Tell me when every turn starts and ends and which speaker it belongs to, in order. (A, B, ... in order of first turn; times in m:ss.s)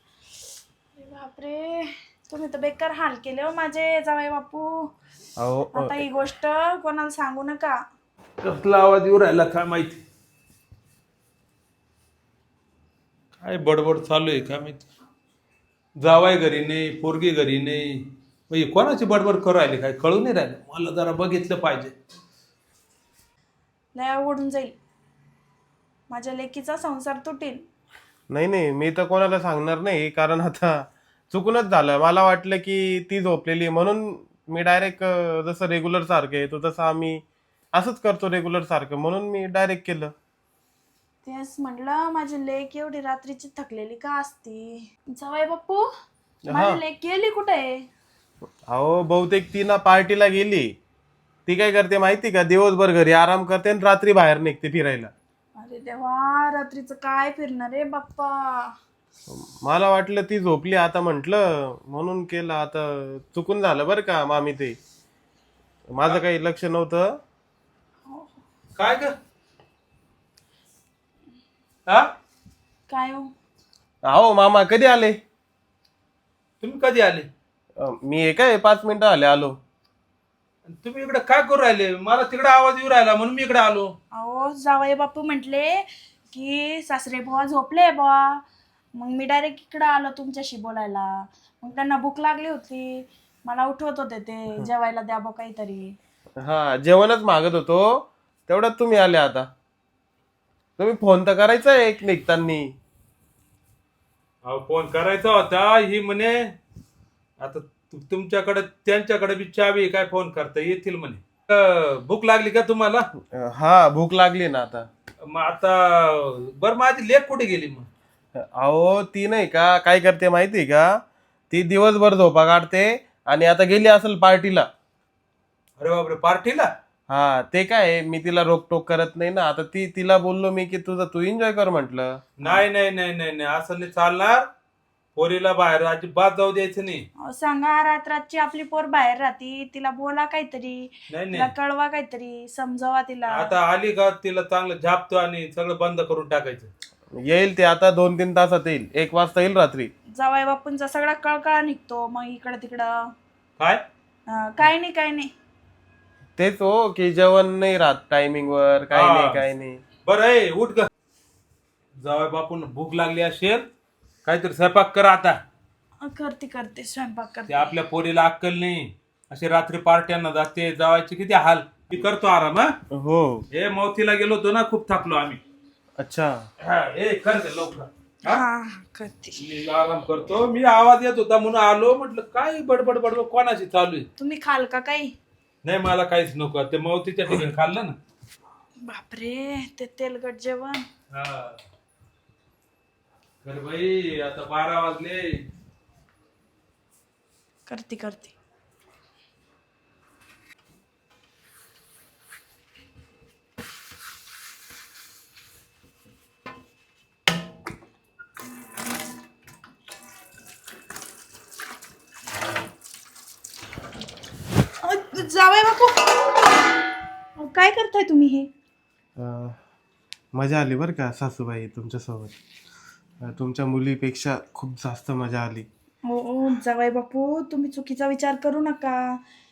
0:00.9-0:04.9 A
0:05.4-0:06.0 B
0:05.7-0:07.8 A
0:08.4-0:10.0 C
0:13.4-0:14.8 C
0:16.0-0:21.9 C
0:24.0-0:24.8 A
0:26.1-0:27.6 A
0:28.3-0:37.2 B
0:37.7-0:40.1 B
0:41.2-0:45.9 A
0:46.5-0:46.8 B
0:46.5-0:47.8 A
0:48.7-0:50.7 B
0:51.4-0:55.1 B
0:55.6-0:58.7 A
0:59.3-1:04.8 B
1:05.9-1:07.1 B
1:08.1-1:08.4 A
1:08.8-1:09.1 C
1:12.9-1:13.3 A
1:14.1-1:15.2 B
1:16.6-1:17.3 C
1:17.8-1:19.6 B
1:20.7-1:23.9 C
1:24.1-1:28.4 A
1:28.9-1:35.9 A
1:36.4-1:39.5 B
1:40.8-1:42.7 B
1:44.4-1:46.5 C
1:47.4-1:53.0 C
1:53.3-1:54.9 B
1:55.2-1:57.9 C
1:58.4-2:04.7 B
2:05.8-2:06.7 C
2:07.1-2:12.6 B
2:12.4-2:14.4 C
2:15.2-2:17.0 C
2:17.2-2:23.5 A
2:21.1-2:21.5 C
2:23.3-2:26.7 C
2:27.2-2:29.9 B
2:30.2-2:33.1 A
2:34.3-2:35.3 A
2:36.4-2:39.8 B
2:38.9-2:39.4 C
2:40.0-2:40.9 C
2:42.0-2:43.7 C
2:44.2-2:45.4 C
2:46.0-2:47.7 A
2:47.5-2:52.7 C
2:52.9-2:53.4 B
2:53.5-2:55.4 C
2:56.0-2:56.4 B
2:56.6-2:58.4 C
2:58.2-2:59.4 A
2:59.4-3:04.0 C
3:04.2-3:05.1 A
3:05.6-3:08.0 C
3:08.8-3:10.8 A
3:11.1-3:11.6 C
3:13.4-3:15.4 C
3:17.7-3:18.3 A
3:34.8-3:36.5 A
3:37.4-3:38.5 A
3:39.2-3:39.6 B
3:40.4-3:42.3 B
3:43.2-3:45.7 B
3:46.0-3:49.2 A